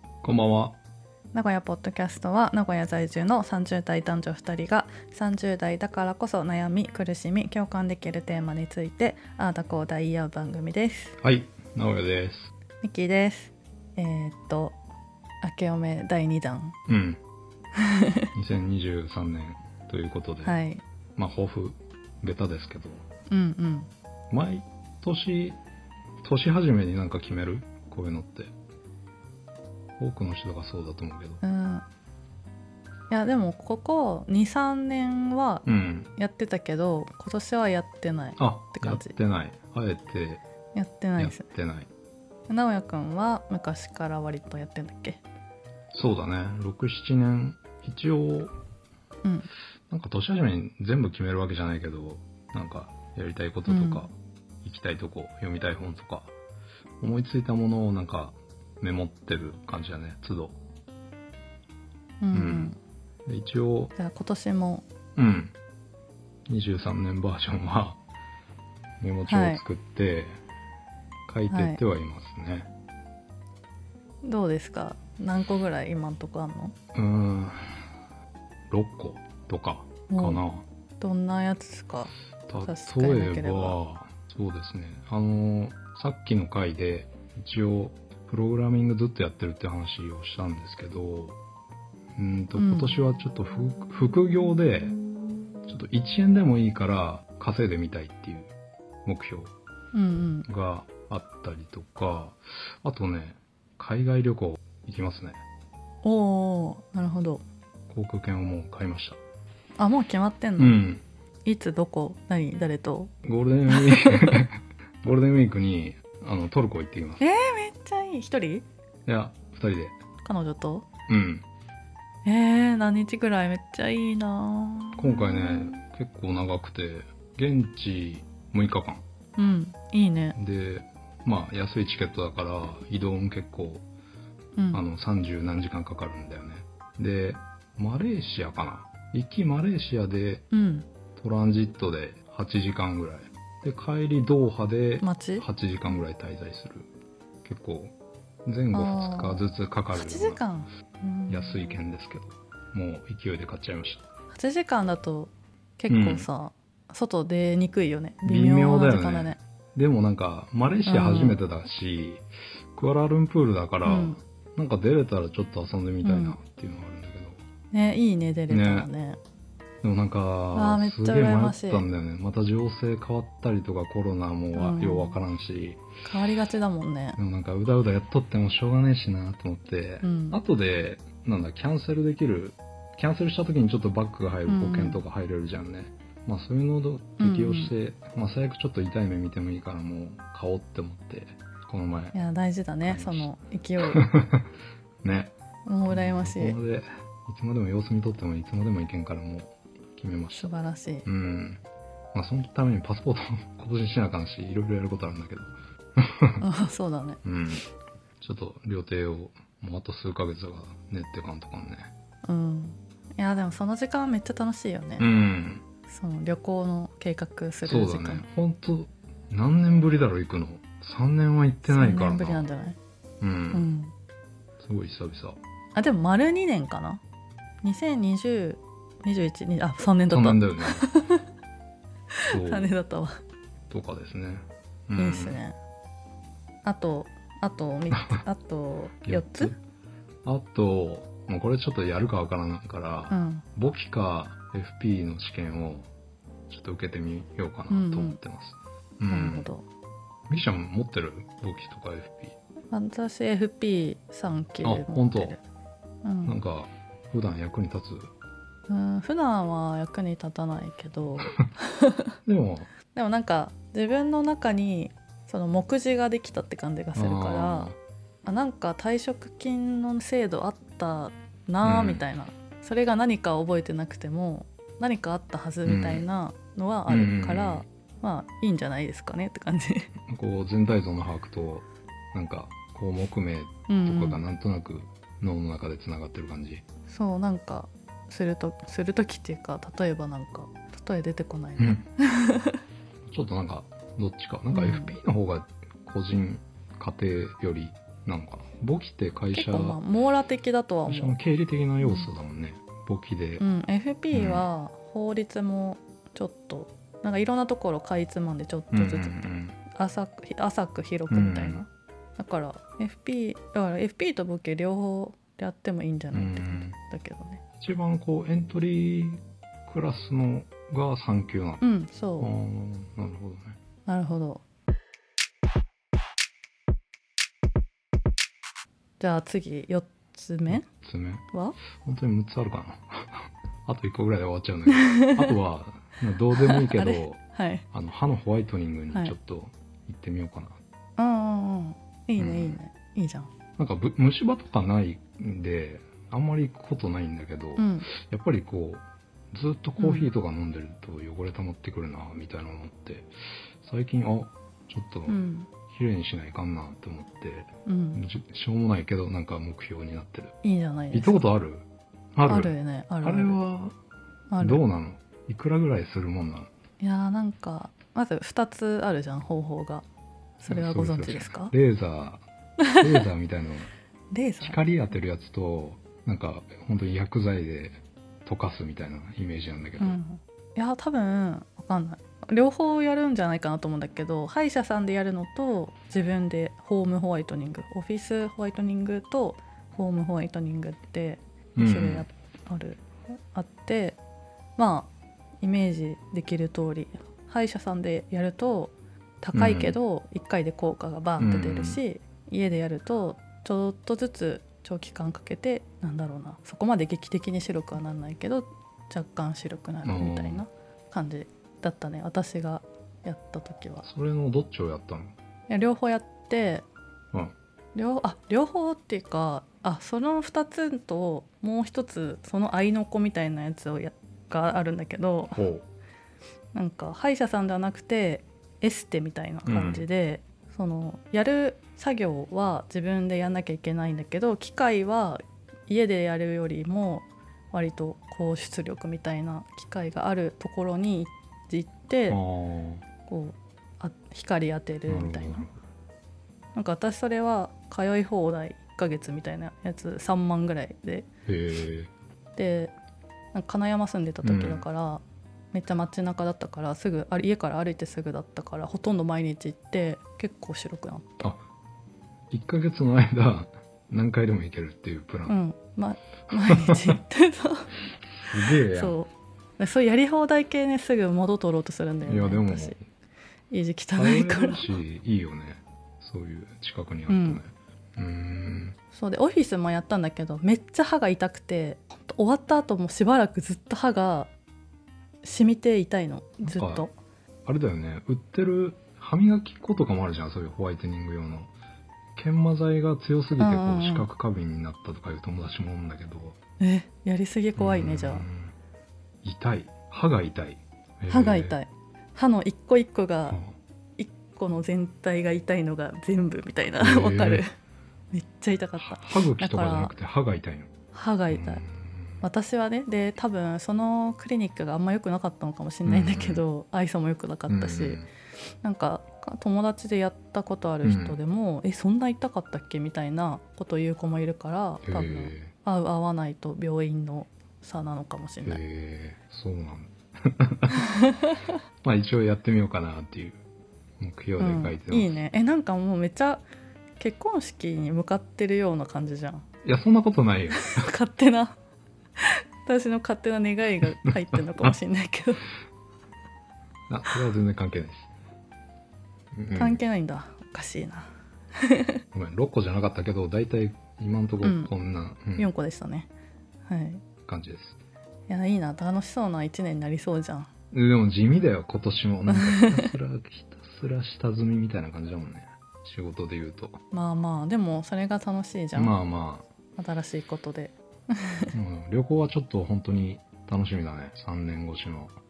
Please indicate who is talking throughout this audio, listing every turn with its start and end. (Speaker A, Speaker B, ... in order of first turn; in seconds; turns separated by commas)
Speaker A: 0.2-0.8, Speaker B: 1.3-11.2, Speaker A: 11.2-12.4, Speaker B: 12.8-14.8, Speaker B: 15.4-16.8, Speaker A: 16.9-17.2, Speaker B: 17.8-18.3, Speaker A: 18.3-20.6, Speaker B: 20.4-20.8, Speaker A: 21.2-23.1, Speaker B: 23.3-23.9, Speaker A: 24.3-25.6, Speaker A: 26.2-28.5, Speaker A: 30.0-31.4, Speaker B: 31.4-31.9, Speaker B: 33.1-35.6, Speaker A: 35.6-36.1, Speaker B: 36.2-39.1, Speaker A: 38.4-40.4, Speaker B: 40.8-41.5, Speaker A: 41.2-41.9, Speaker B: 42.5-45.2, Speaker A: 45.9-48.5, Speaker B: 49.2-49.5, Speaker A: 49.9-56.4, Speaker B: 53.7-54.1, Speaker A: 57.0-60.6, Speaker B: 62.2-62.8, Speaker A: 62.3-62.7, Speaker A: 63.3-63.9, Speaker B: 64.0-64.9, Speaker A: 65.2-65.5, Speaker A: 66.5-68.0, Speaker A: 69.0-70.4, Speaker B: 69.3-69.6, Speaker A: 71.3-72.7, Speaker B: 71.5-71.8, Speaker B: 74.2-76.7, Speaker A: 76.9-77.9, Speaker A: 78.7-80.7, Speaker B: 80.1-80.4, Speaker B: 81.0-82.1, Speaker A: 82.5-91.4, Speaker B: 82.6-83.8, Speaker A: 92.2-95.0, Speaker B: 92.6-93.0, Speaker A: 95.7-98.5, Speaker A: 99.0-99.5, Speaker B: 99.9-100.5, Speaker A: 100.5-105.4, Speaker B: 106.0-107.4, Speaker A: 107.9-109.2, Speaker B: 109.8-110.8, Speaker A: 110.6-111.0, Speaker B: 111.5-113.1, Speaker A: 113.2-117.2, Speaker B: 113.7-114.5, Speaker B: 117.2-118.7, Speaker A: 119.1-120.0, Speaker B: 120.2-120.9, Speaker A: 121.1-121.5, Speaker B: 122.2-125.8, Speaker A: 125.0-129.0, Speaker B: 129.4-130.4, Speaker A: 130.3-133.9, Speaker B: 134.6-134.8, Speaker A: 134.7-140.5, Speaker B: 140.5-140.9, Speaker A: 141.2-146.9, Speaker B: 145.0-145.5, Speaker A: 147.4-147.9, Speaker A: 148.4-150.4, Speaker B: 148.7-151.7, Speaker A: 151.3-154.1, Speaker B: 154.3-159.4, Speaker A: 155.9-156.3, Speaker A: 158.2-167.4, Speaker B: 160.8-161.4, Speaker B: 163.8-164.2, Speaker B: 166.0-166.4, Speaker B: 167.7-169.2, Speaker A: 168.5-168.9, Speaker A: 169.8-175.8, Speaker B: 170.5-171.9, Speaker B: 174.6-175.2, Speaker B: 176.1-177.2, Speaker A: 177.2-192.2, Speaker B: 180.0-180.4, Speaker B: 184.5-185.0, Speaker B: 187.2-187.7, Speaker B: 192.1-194.0, Speaker A: 192.8-193.3, Speaker A: 194.0-194.5, Speaker A: 195.0-195.3, Speaker B: 195.7-196.6, Speaker A: 195.9-200.5, Speaker B: 200.3-201.1, Speaker A: 201.1-201.6, Speaker A: 202.1-206.4, Speaker B: 206.4-207.2, Speaker A: 207.2-207.7, Speaker A: 208.2-211.9, Speaker B: 212.2-215.1, Speaker A: 215.0-215.6, Speaker B: 215.9-218.3, Speaker A: 217.7-222.5, Speaker B: 221.7-222.8, Speaker A: 223.2-223.7, Speaker B: 223.5-223.9, Speaker A: 224.6-225.4, Speaker B: 225.8-227.0, Speaker B: 227.6-231.2, Speaker A: 230.1-230.9, Speaker B: 232.2-233.2, Speaker A: 232.2-232.7, Speaker A: 233.7-235.4, Speaker B: 235.0-235.6, Speaker B: 236.6-239.5, Speaker A: 237.9-238.2, Speaker A: 239.0-239.6, Speaker A: 240.2-245.9, Speaker B: 243.1-243.4, Speaker A: 246.5-249.5, Speaker B: 247.7-248.2, Speaker B: 249.1-249.7, Speaker A: 250.3-252.4, Speaker B: 252.7-255.4, Speaker A: 254.6-255.4, Speaker B: 256.0-256.4, Speaker A: 256.2-258.1, Speaker B: 258.7-262.1, Speaker A: 262.3-262.7, Speaker B: 262.9-267.7, Speaker A: 266.9-267.8, Speaker B: 268.2-279.9, Speaker A: 271.6-272.0, Speaker A: 275.6-276.1, Speaker A: 276.9-277.6, Speaker A: 280.1-286.6, Speaker B: 283.7-284.2, Speaker B: 286.9-292.6, Speaker A: 291.6-291.9, Speaker A: 293.1-299.8, Speaker B: 294.5-294.9, Speaker B: 299.3-301.2, Speaker A: 300.9-303.4, Speaker B: 301.8-302.1, Speaker B: 303.4-317.4, Speaker A: 304.1-304.5, Speaker A: 308.7-309.6, Speaker A: 311.1-311.6, Speaker A: 316.1-316.8, Speaker A: 317.6-321.6, Speaker B: 321.6-322.3, Speaker A: 322.2-323.6, Speaker B: 323.9-324.4, Speaker B: 329.0-330.7, Speaker A: 330.5-331.2, Speaker A: 331.8-337.2, Speaker B: 334.7-335.3, Speaker B: 336.4-337.6, Speaker A: 337.7-340.6, Speaker B: 341.0-343.3, Speaker A: 342.2-342.6, Speaker A: 343.6-353.1, Speaker B: 347.6-347.9, Speaker B: 349.8-350.1, Speaker A: 353.6-360.4, Speaker B: 355.1-355.5, Speaker B: 357.7-358.0, Speaker B: 360.4-361.3, Speaker A: 360.9-363.8, Speaker B: 362.3-363.4, Speaker B: 364.3-364.6, Speaker A: 364.4-366.5, Speaker B: 366.8-369.9, Speaker B: 370.4-371.5, Speaker A: 370.4-372.2, Speaker B: 372.6-373.1, Speaker A: 372.8-373.7, Speaker B: 374.1-374.6, Speaker A: 374.4-380.0, Speaker B: 379.8-394.0, Speaker A: 391.6-392.1, Speaker B: 394.6-394.9, Speaker B: 395.4-413.9, Speaker A: 399.3-399.8, Speaker A: 401.2-401.8, Speaker A: 409.9-410.4, Speaker A: 413.9-415.2, Speaker B: 415.5-416.7, Speaker B: 417.8-425.4, Speaker A: 425.4-425.7, Speaker B: 426.5-442.2, Speaker A: 429.5-429.9, Speaker A: 442.1-442.8, Speaker B: 443.1-445.5, Speaker A: 444.9-445.5, Speaker B: 446.6-451.1, Speaker A: 451.3-451.9, Speaker B: 452.4-452.7, Speaker B: 453.3-461.3, Speaker A: 454.2-454.6, Speaker A: 462.3-465.4, Speaker B: 465.3-467.7, Speaker A: 468.2-469.0, Speaker B: 468.6-472.8, Speaker A: 472.1-472.8, Speaker B: 473.5-474.8, Speaker A: 474.0-478.8, Speaker B: 477.1-477.4, Speaker B: 478.9-484.3, Speaker B: 485.2-486.9, Speaker A: 486.5-486.9, Speaker A: 487.5-491.5, Speaker A: 492.2-496.4, Speaker B: 493.4-494.1, Speaker B: 496.6-498.3, Speaker A: 497.6-498.5, Speaker A: 499.2-501.6, Speaker B: 501.1-503.4, Speaker A: 503.3-503.6, Speaker B: 504.0-507.5, Speaker A: 506.8-507.4, Speaker B: 508.1-509.9, Speaker A: 508.8-510.7, Speaker B: 510.9-511.6, Speaker A: 511.3-512.2, Speaker B: 512.2-518.0, Speaker A: 515.9-516.4, Speaker A: 517.5-518.1, Speaker B: 518.6-528.6, Speaker A: 520.8-521.2, Speaker A: 524.9-525.5, Speaker A: 528.5-530.8, Speaker B: 530.8-531.5, Speaker A: 531.8-533.4, Speaker A: 534.0-535.1, Speaker B: 534.4-536.4, Speaker B: 537.0-539.5, Speaker A: 539.6-540.9, Speaker B: 540.5-541.5, Speaker B: 542.2-545.5, Speaker A: 544.1-544.7, Speaker A: 546.9-548.1, Speaker A: 549.3-549.8, Speaker B: 549.6-552.0, Speaker A: 552.1-555.5, Speaker B: 554.4-554.7, Speaker B: 555.4-556.1, Speaker B: 556.7-557.0, Speaker A: 557.3-557.8, Speaker B: 558.3-560.5, Speaker A: 560.7-566.8, Speaker B: 562.3-562.9, Speaker B: 566.9-569.0, Speaker A: 568.7-569.5, Speaker B: 569.8-571.5, Speaker A: 571.5-575.1